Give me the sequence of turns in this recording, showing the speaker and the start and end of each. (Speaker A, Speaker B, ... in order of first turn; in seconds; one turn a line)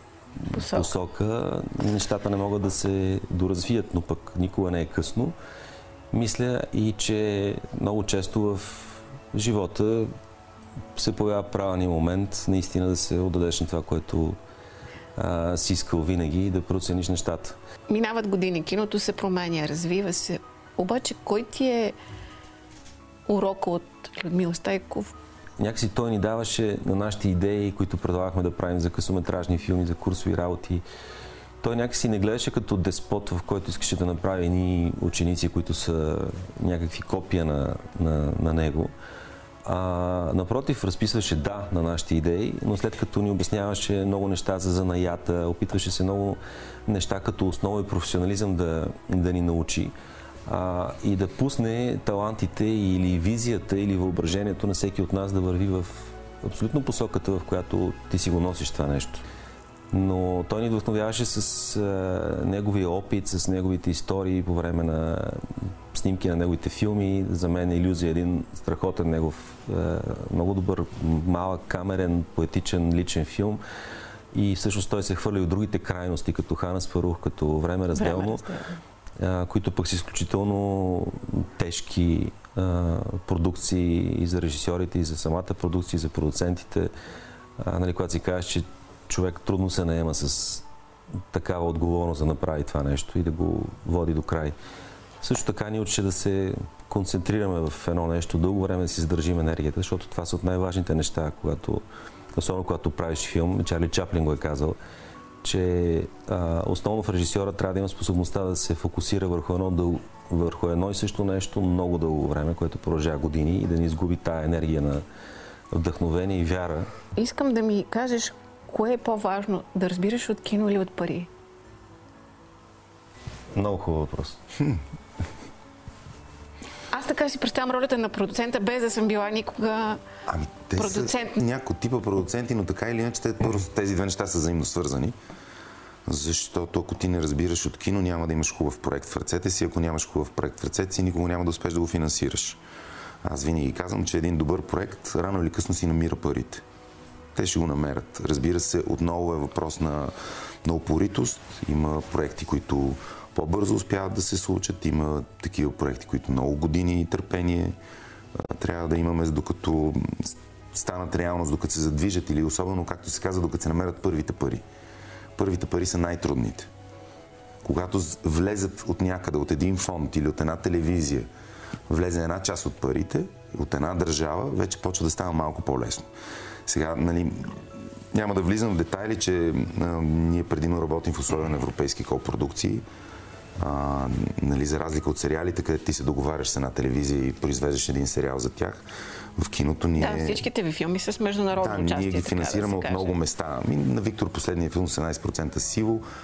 Speaker A: 0.4-5.3
Speaker B: 0.5-0.9
Speaker A: 6.1-10.1
Speaker A: 10.9-14.4
Speaker A: 15.2-17.6
Speaker B: 17.9-21.9
Speaker B: 23.3-25.1
Speaker A: 25.6-30.8
Speaker A: 31.6-38.9
Speaker A: 39.6-49.9
Speaker A: 50.5-59.2
Speaker A: 59.9-73.6
Speaker A: 74.3-78.4
Speaker B: 77.9-78.8
Speaker A: 79.2-86.9
Speaker A: 87.6-90.7
Speaker A: 91.3-94.5
Speaker A: 95.2-101.8
Speaker A: 102.3-104.8
Speaker A: 105.4-115.0
Speaker A: 115.7-116.9
Speaker B: 117.2-121.3
Speaker A: 123.5-124.4
Speaker B: 126.9-130.0
Speaker C: 130.3-135.2
Speaker B: 130.8-131.4
Speaker C: 136.1-142.6
Speaker C: 143.2-146.6
Speaker C: 147.3-157.8
Speaker C: 158.4-164.6
Speaker C: 165.4-166.7
Speaker C: 167.6-171.3
Speaker C: 171.9-176.1
Speaker C: 176.7-182.8
Speaker C: 183.6-188.8
Speaker C: 189.3-190.4
Speaker B: 190.0-193.1
Speaker C: 191.6-196.0